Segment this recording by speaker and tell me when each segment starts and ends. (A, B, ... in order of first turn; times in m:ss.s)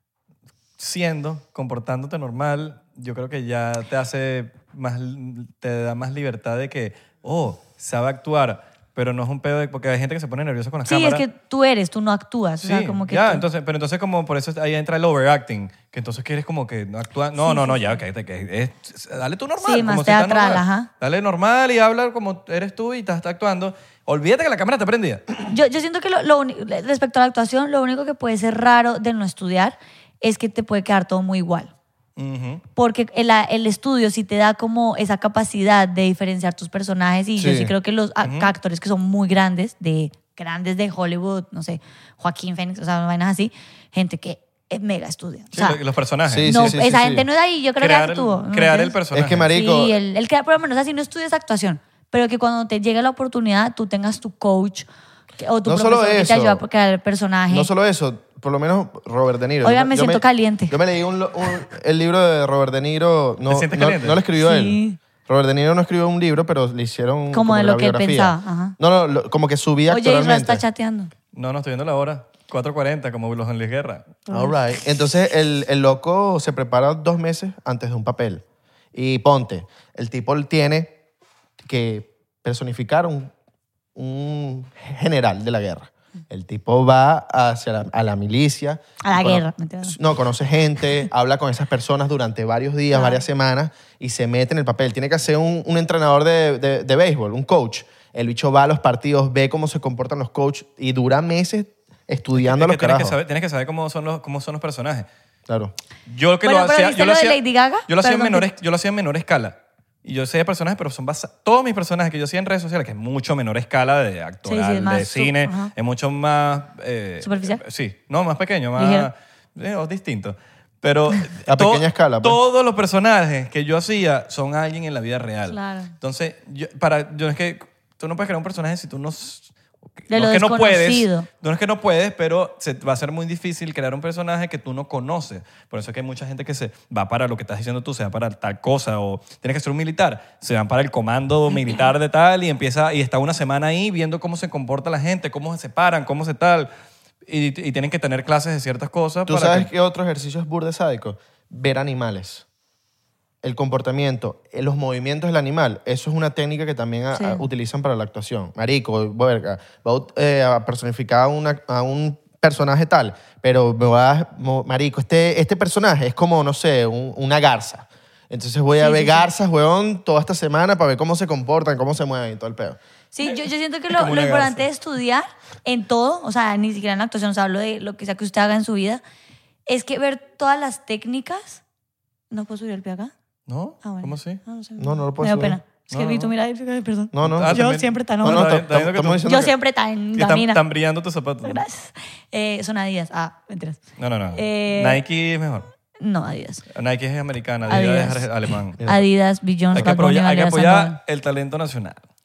0:00.8-0:11.2 A
0:10.9-0:13.4 B
0:12.6-0:25.3 A
0:17.4-0:18.0 B
0:19.6-0:20.9 B
0:25.5-0:31.7 B
0:32.2-0:32.6 A
0:32.8-0:45.8 B
0:37.4-0:37.7 C
0:38.2-0:38.5 A
0:45.5-0:46.6 A
0:46.3-0:47.3 C
0:46.4-0:49.0 B
0:47.8-0:49.5 A
0:49.1-0:50.0 C
0:49.5-0:54.9 B
0:55.4-0:57.7 B
0:55.6-0:56.6 C
0:57.5-1:10.6 C
0:59.6-1:00.8 B
1:03.5-1:04.2 A
1:04.4-1:05.0 B
1:07.3-1:08.8 B
1:09.9-1:11.1 B
1:11.3-1:14.2 A
1:14.3-1:14.6 B
1:14.3-1:18.4 C
1:18.9-1:20.9 C
1:21.6-1:23.3 C
1:24.0-1:43.2 C
1:29.0-1:30.0 B
1:32.9-1:33.2 B
1:42.4-1:45.1 A
1:45.5-1:45.7 C
1:46.1-2:09.5 A
1:46.4-1:48.5 B
1:54.4-1:55.7 B
1:57.2-1:57.6 B
1:58.8-1:59.1 B
2:01.5-2:02.4 C
2:05.5-2:05.9 B
2:10.1-2:26.7 A
2:10.1-2:11.3 B
2:27.3-2:29.7 A
2:29.3-2:32.4 C
2:33.4-2:52.8 C
2:37.2-2:37.4 B
2:48.8-2:49.3 B
2:53.1-2:59.0 B
2:53.9-2:54.6 A
2:59.7-3:01.6 B
3:02.3-3:03.1 B
3:03.5-3:04.4 A
3:03.8-3:08.6 B
3:04.8-3:05.6 C
3:05.9-3:06.3 A
3:07.1-3:07.6 C
3:07.2-3:09.3 A
3:08.2-3:09.5 C
3:09.2-3:10.6 B
3:10.2-3:11.6 A
3:11.4-3:13.8 B
3:14.0-3:15.7 A
3:14.3-3:15.0 B
3:16.0-3:16.6 B
3:16.7-3:18.8 A
3:17.7-3:18.3 B
3:18.8-3:21.0 B
3:19.7-3:22.0 A